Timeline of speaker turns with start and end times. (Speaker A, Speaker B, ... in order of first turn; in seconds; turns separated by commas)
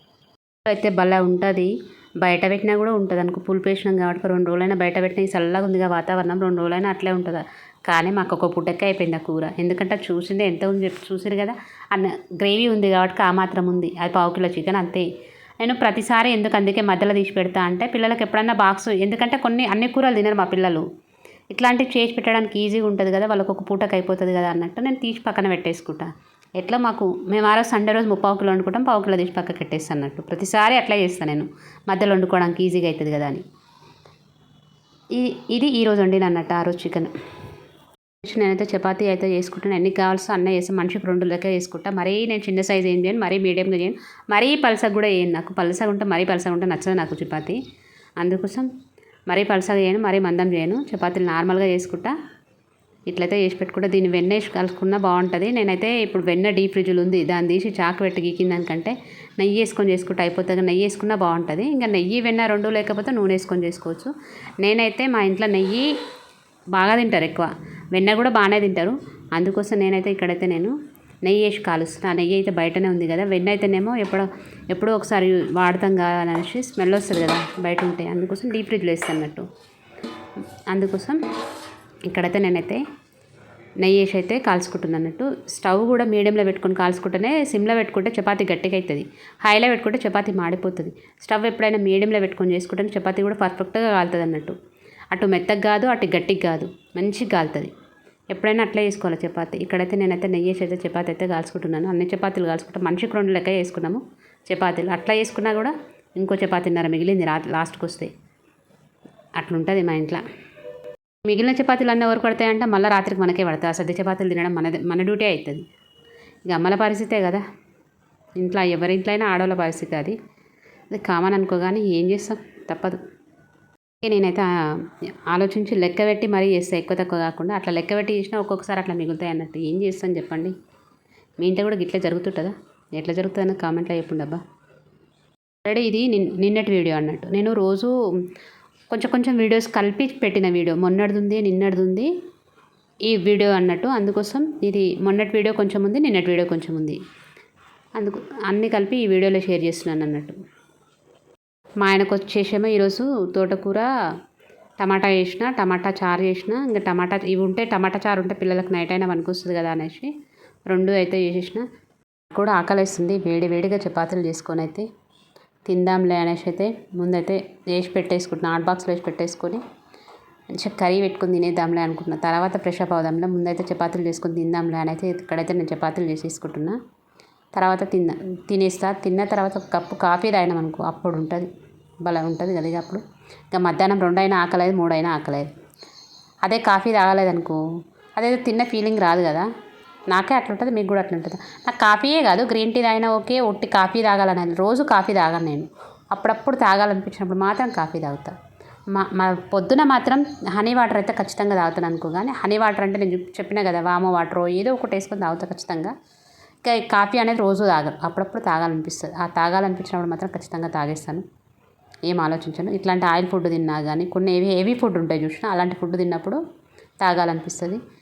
Speaker A: 0.7-15.1, Speaker A: 15.6-20.9, Speaker A: 21.5-33.4, Speaker A: 35.1-37.1, Speaker A: 38.2-47.6, Speaker A: 48.2-48.7, Speaker A: 49.3-52.1, Speaker A: 53.1-65.9, Speaker A: 66.7-79.5, Speaker A: 80.7-81.2, Speaker A: 82.1-82.8, Speaker A: 83.8-94.5, Speaker A: 95.1-97.7, Speaker A: 98.3-108.1, Speaker A: 109.4-110.2, Speaker A: 111.2-115.6, Speaker A: 116.5-117.4, Speaker A: 118.4-120.2, Speaker A: 120.9-123.0, Speaker A: 124.0-130.5, Speaker A: 131.4-134.4, Speaker A: 135.6-137.9, Speaker A: 138.9-142.1, Speaker A: 143.1-147.0, Speaker A: 148.0-150.4, Speaker A: 151.8-153.9, Speaker A: 154.8-160.1, Speaker A: 160.7-161.6, Speaker A: 162.3-164.9, Speaker A: 165.7-169.6, Speaker A: 170.5-176.8, Speaker A: 177.5-181.5, Speaker A: 182.0-185.5, Speaker A: 186.4-187.6, Speaker A: 188.2-189.5, Speaker A: 190.1-198.3, Speaker A: 198.9-205.9, Speaker A: 206.6-211.2, Speaker A: 212.1-216.4, Speaker A: 217.0-217.8